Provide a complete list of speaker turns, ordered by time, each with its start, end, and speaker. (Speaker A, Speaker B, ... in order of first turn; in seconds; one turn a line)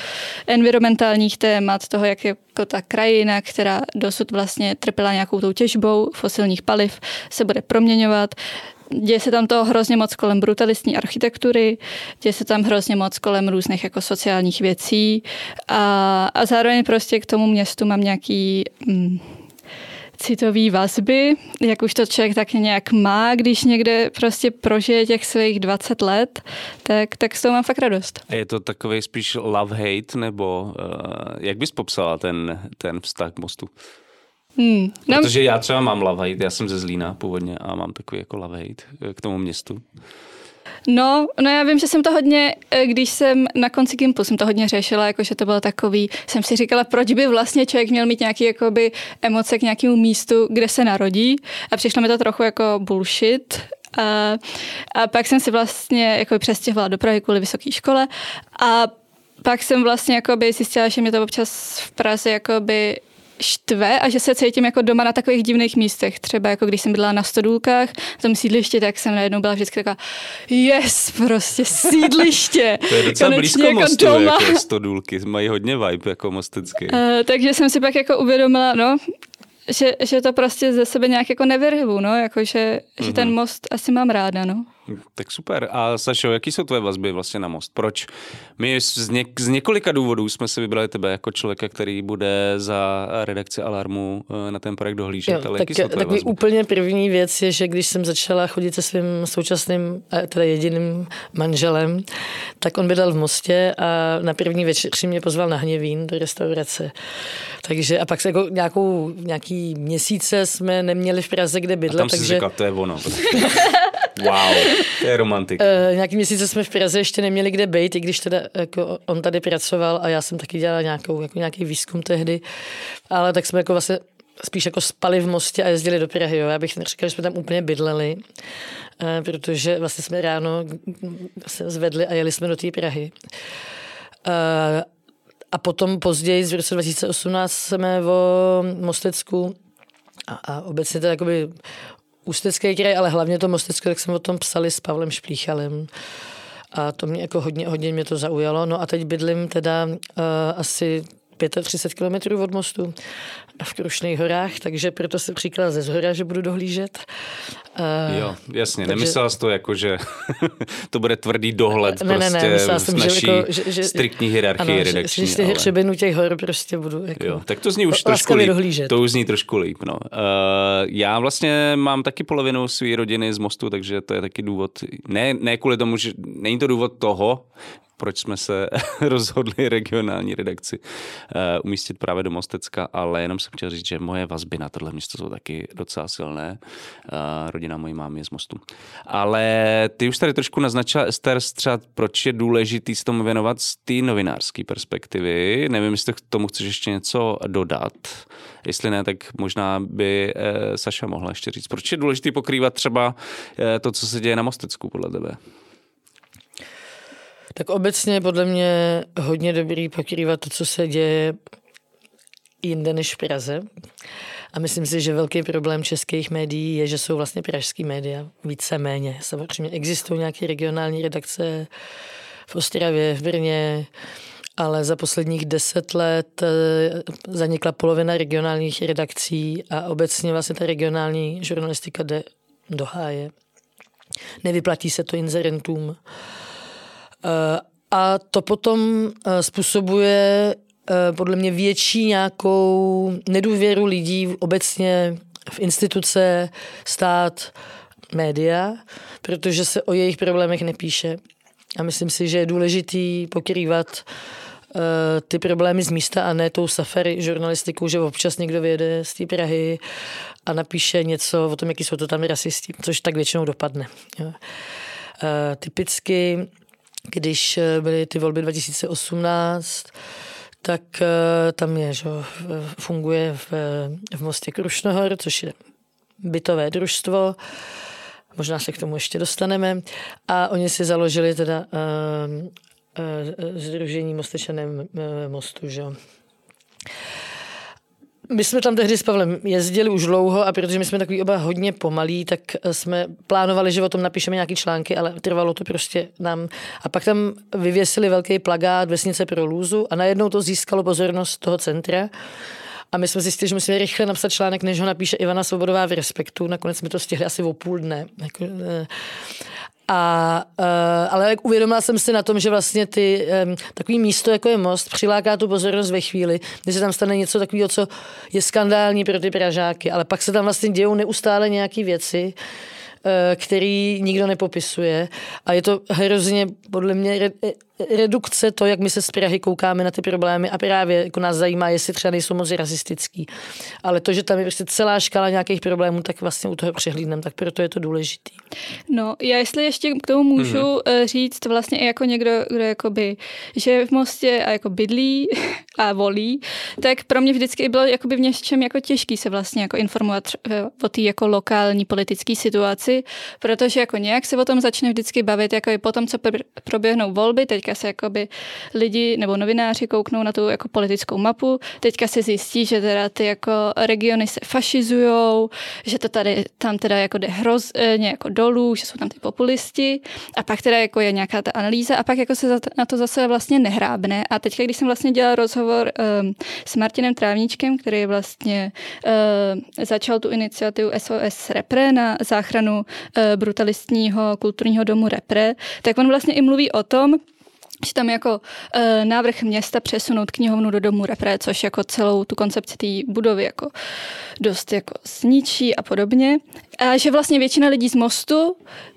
Speaker A: 0.5-8.3
Speaker A: 8.9-19.3
Speaker A: 20.2-28.2
Speaker B: 28.3-33.7
Speaker A: 34.6-35.3
Speaker B: 35.1-39.8
Speaker A: 40.9-58.9
Speaker A: 59.4-74.6
Speaker B: 72.9-77.0
Speaker A: 76.9-79.1
Speaker A: 79.7-84.7
Speaker B: 83.0-83.3
Speaker B: 84.9-96.3
Speaker C: 95.3-102.1
Speaker C: 102.6-106.9
Speaker C: 107.6-112.4
Speaker B: 111.9-113.6
Speaker B: 114.1-115.7
Speaker C: 115.6-122.4
Speaker C: 123.1-128.2
Speaker C: 129.0-133.2
Speaker C: 134.2-134.9
Speaker C: 135.5-139.6
Speaker C: 140.3-141.6
Speaker C: 142.2-145.9
Speaker C: 146.7-152.9
Speaker C: 153.6-157.1
Speaker C: 157.8-159.2
Speaker B: 158.1-165.7
Speaker C: 161.8-168.9
Speaker B: 167.2-177.5
Speaker B: 178.0-205.4
Speaker C: 207.6-211.4
Speaker C: 212.6-213.7
Speaker C: 214.5-221.7
Speaker C: 222.5-223.9
Speaker C: 224.6-233.3
Speaker C: 234.4-236.0
Speaker C: 237.2-247.5
Speaker C: 248.1-251.2
Speaker C: 251.8-254.1
Speaker C: 254.7-259.8
Speaker C: 260.5-264.4
Speaker C: 265.2-266.5
Speaker C: 267.1-269.9
Speaker C: 270.6-275.6
Speaker C: 276.2-277.4
Speaker C: 278.4-286.0
Speaker C: 288.3-302.1
Speaker C: 302.9-308.9
Speaker C: 309.9-322.4
Speaker C: 323.0-333.3
Speaker C: 333.8-338.4
Speaker A: 338.9-387.2
Speaker B: 340.4-340.7
Speaker A: 387.8-393.7
Speaker A: 394.4-398.6